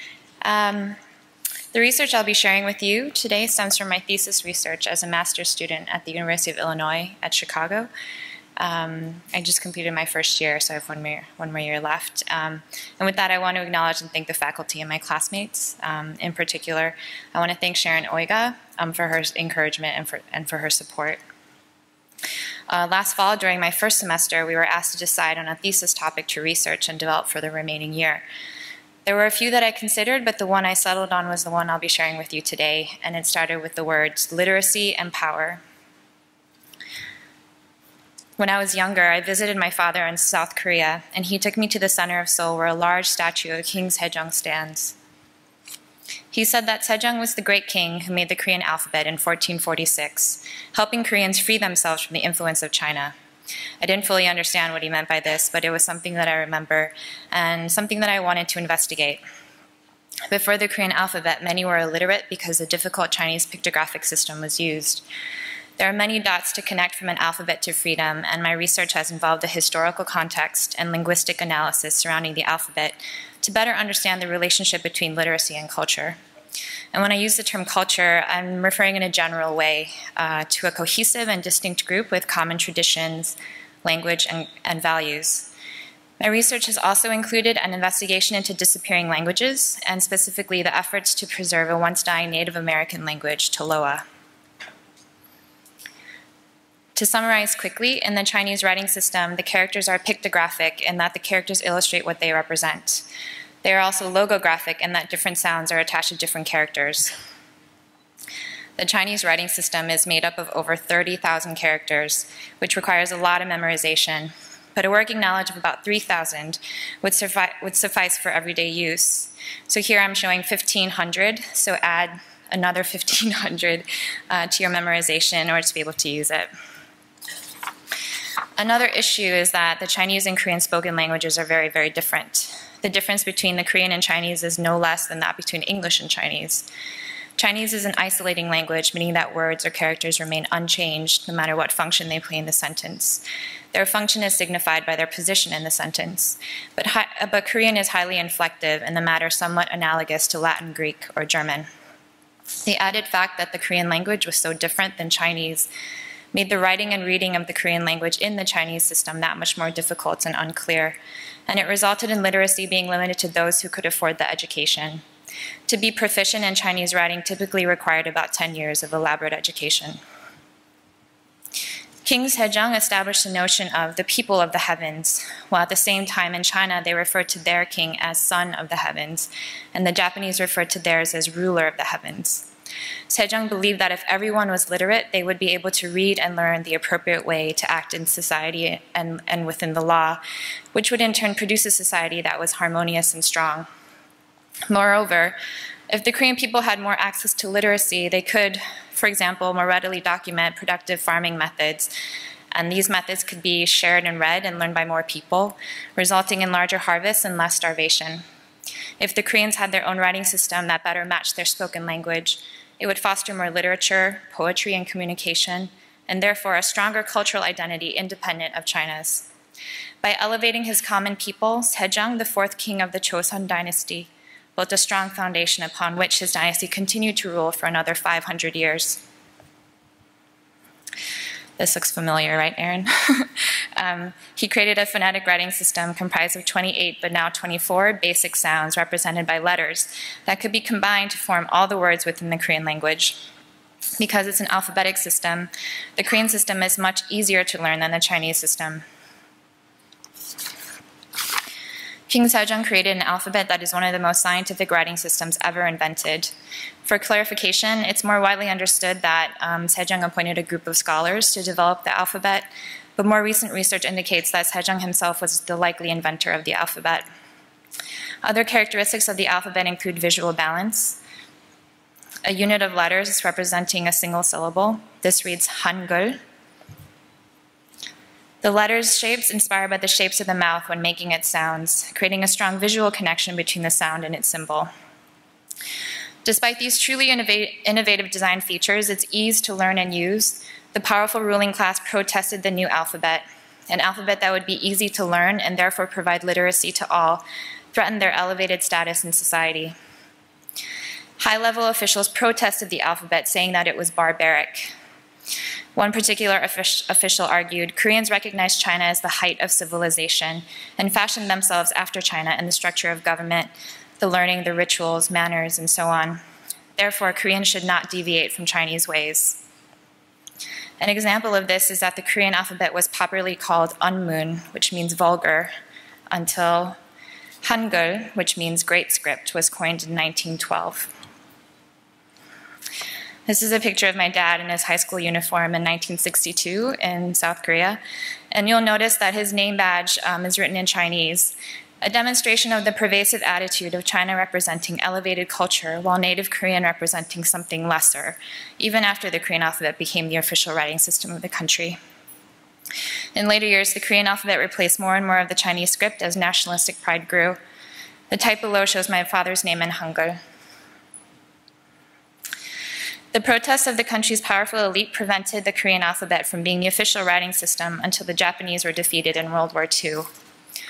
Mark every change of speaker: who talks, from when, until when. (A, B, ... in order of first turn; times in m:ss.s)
0:00.4-0:01.0 A
0:01.7-0:07.9 A
0:08.6-0:21.2 A
0:22.7-0:28.2 A
0:29.0-0:35.6 A
0:38.4-0:45.0 A
0:46.3-0:53.2 A
0:53.8-0:59.2 A
1:00.3-1:05.0 A
1:05.8-1:16.2 A
1:16.9-1:25.5 A
1:26.2-1:34.0 A
1:37.0-1:43.1 A
1:43.6-1:47.1 A
1:48.8-2:06.5 A
2:08.6-2:16.7 A
2:17.4-2:31.7 A
2:32.6-2:35.7 A
2:36.3-2:45.0 A
2:45.7-2:50.0 A
2:52.0-3:02.5 A
3:03.1-3:10.2 A
3:10.7-3:13.7 A
3:14.7-3:15.4 A
3:15.9-3:21.9 A
3:22.5-3:28.2 A
3:29.0-3:39.3 A
3:40.0-3:49.0 A
3:51.6-4:03.2 A
4:04.0-4:08.8 A
4:12.1-4:16.3 A
4:16.8-4:27.1 A
4:28.2-4:31.0 A
4:32.2-4:36.2 A
4:38.4-4:44.7 A
4:46.2-4:59.8 A
5:01.2-5:04.7 A
5:05.8-5:16.2 A
5:16.8-5:19.4 A
5:20.8-5:25.5 A
5:26.1-5:26.8 A
5:27.4-5:30.9 A
5:33.3-5:37.8 A
5:38.3-5:51.8 A
5:53.2-5:57.4 A
5:58.1-6:00.2 A
6:03.1-6:10.1 A